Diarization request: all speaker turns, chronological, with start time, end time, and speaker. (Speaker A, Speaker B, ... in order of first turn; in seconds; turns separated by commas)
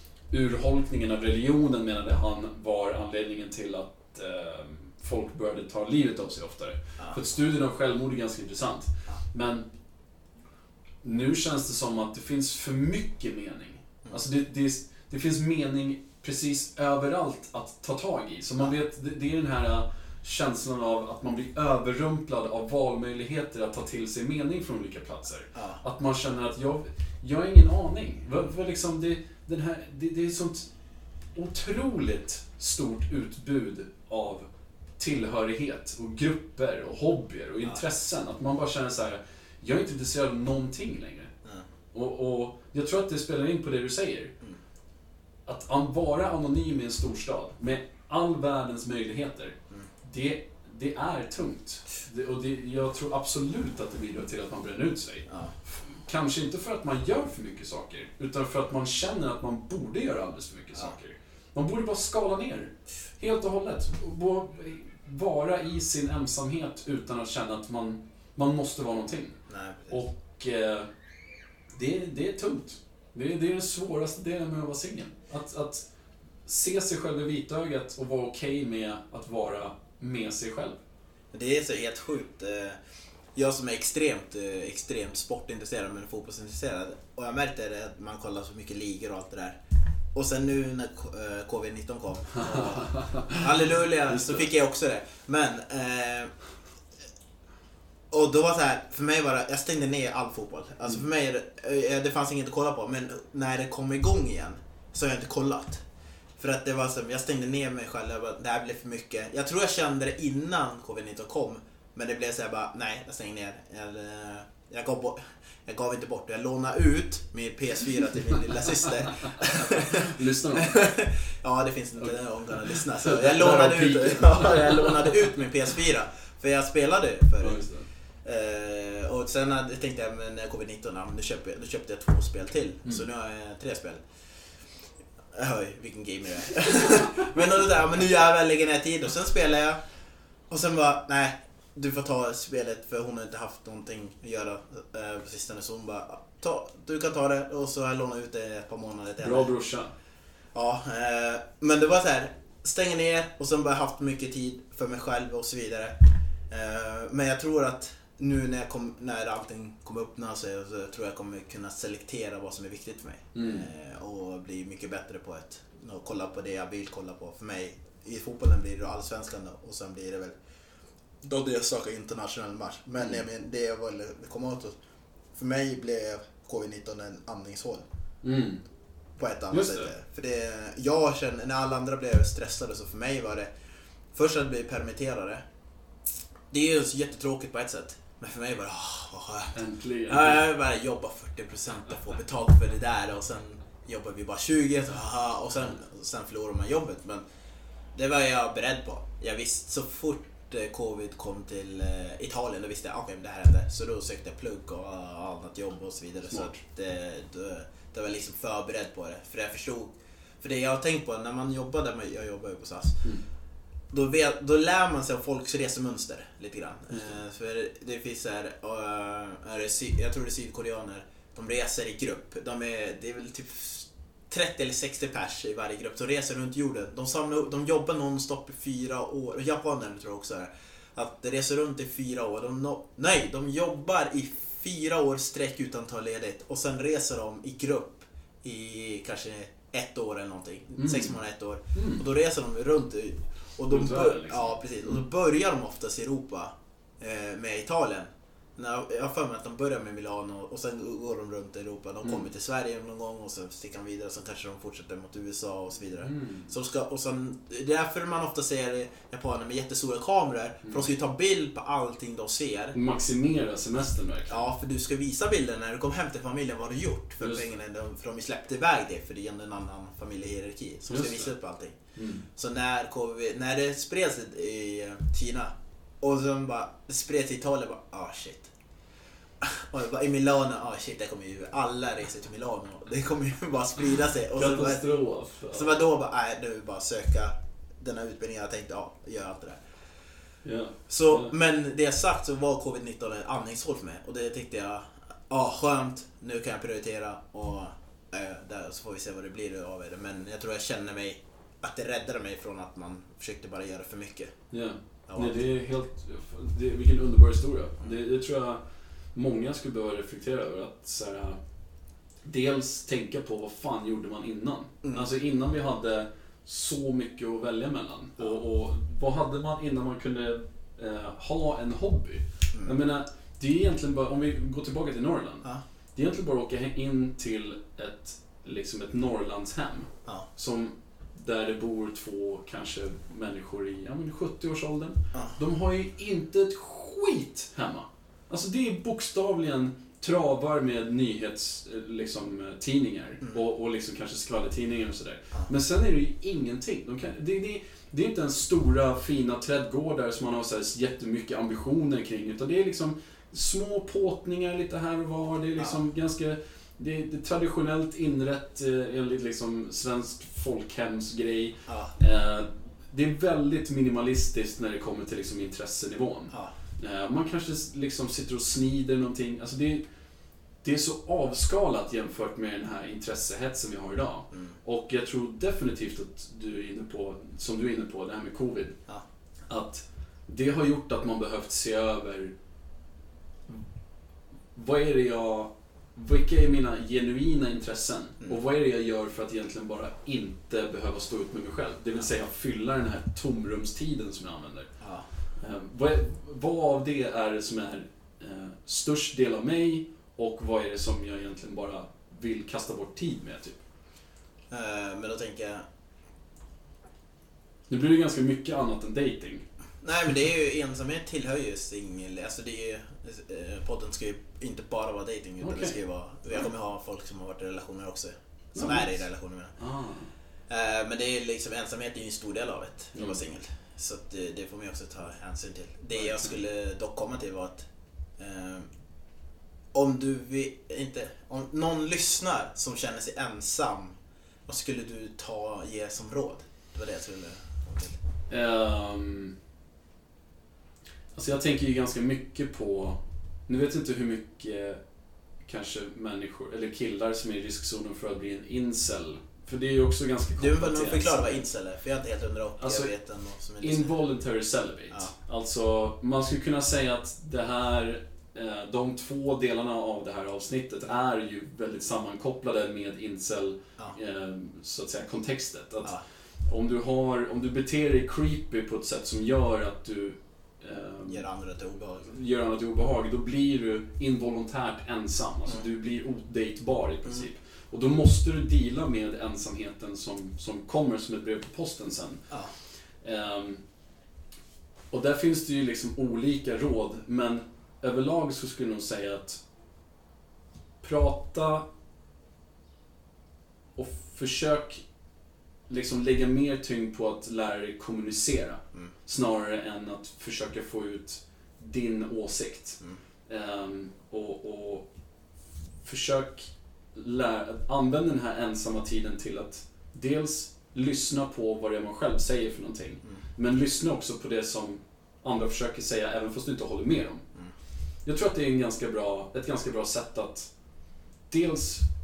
Speaker A: 0.3-9.7, Speaker A: 11.0-30.7, Speaker B: 25.5-25.8, Speaker A: 31.3-34.5, Speaker A: 35.0-41.3, Speaker A: 41.9-44.3, Speaker A: 45.5-69.4, Speaker B: 55.3-55.5, Speaker B: 69.5-70.0, Speaker A: 69.9-70.9, Speaker A: 71.7-75.8, Speaker A: 76.4-80.8, Speaker B: 81.3-82.8, Speaker B: 83.3-89.6, Speaker B: 90.1-96.3, Speaker A: 92.4-93.5, Speaker A: 94.1-94.4, Speaker B: 98.1-105.8, Speaker B: 106.4-127.6, Speaker A: 119.4-120.8, Speaker A: 122.0-125.1, Speaker A: 127.4-127.9, Speaker B: 128.2-134.0, Speaker B: 135.3-139.8, Speaker B: 140.5-149.5, Speaker A: 149.2-149.9, Speaker B: 150.5-155.9, Speaker B: 156.5-170.3, Speaker A: 163.3-163.7, Speaker B: 171.2-174.7, Speaker B: 175.3-177.8, Speaker A: 178.2-178.6, Speaker B: 179.2-183.5, Speaker A: 179.5-179.9, Speaker B: 184.1-185.4, Speaker B: 186.5-189.6, Speaker A: 189.5-190.4, Speaker B: 190.1-197.2, Speaker B: 197.9-213.0, Speaker A: 206.3-206.5, Speaker B: 213.9-262.8, Speaker A: 240.8-241.2, Speaker A: 241.7-242.0, Speaker A: 243.7-245.0, Speaker A: 256.0-256.5, Speaker A: 262.7-264.5, Speaker B: 264.3-271.8, Speaker A: 267.2-267.5, Speaker A: 270.9-271.3, Speaker A: 271.9-272.3, Speaker B: 272.3-278.5, Speaker B: 279.4-284.8, Speaker A: 284.3-285.8, Speaker B: 285.5-289.6, Speaker A: 290.4-291.3, Speaker B: 290.9-304.3, Speaker A: 304.5-308.6, Speaker B: 305.1-305.4, Speaker A: 309.1-311.4, Speaker A: 312.2-369.8, Speaker B: 314.8-315.1, Speaker B: 335.1-335.4, Speaker B: 361.7-361.9, Speaker A: 370.6-378.8, Speaker A: 379.5-382.3, Speaker A: 384.5-394.7, Speaker A: 395.4-403.6, Speaker B: 404.5-405.6, Speaker A: 407.7-409.4, Speaker B: 409.8-419.5, Speaker A: 415.4-415.8, Speaker A: 418.5-419.0, Speaker A: 419.6-420.1, Speaker B: 420.5-427.6, Speaker B: 428.2-428.7, Speaker B: 429.7-433.9, Speaker B: 434.5-438.0, Speaker A: 438.3-439.3, Speaker A: 441.1-444.8, Speaker A: 445.4-451.4, Speaker B: 450.4-453.9, Speaker A: 452.6-452.9, Speaker A: 453.6-465.9, Speaker A: 466.4-471.2, Speaker B: 471.1-472.1, Speaker A: 472.0-482.3, Speaker A: 483.0-483.6, Speaker A: 484.9-489.4, Speaker A: 490.8-491.6, Speaker A: 493.7-494.8, Speaker A: 495.7-504.9, Speaker A: 505.8-517.2, Speaker A: 518.0-520.5, Speaker A: 521.3-521.8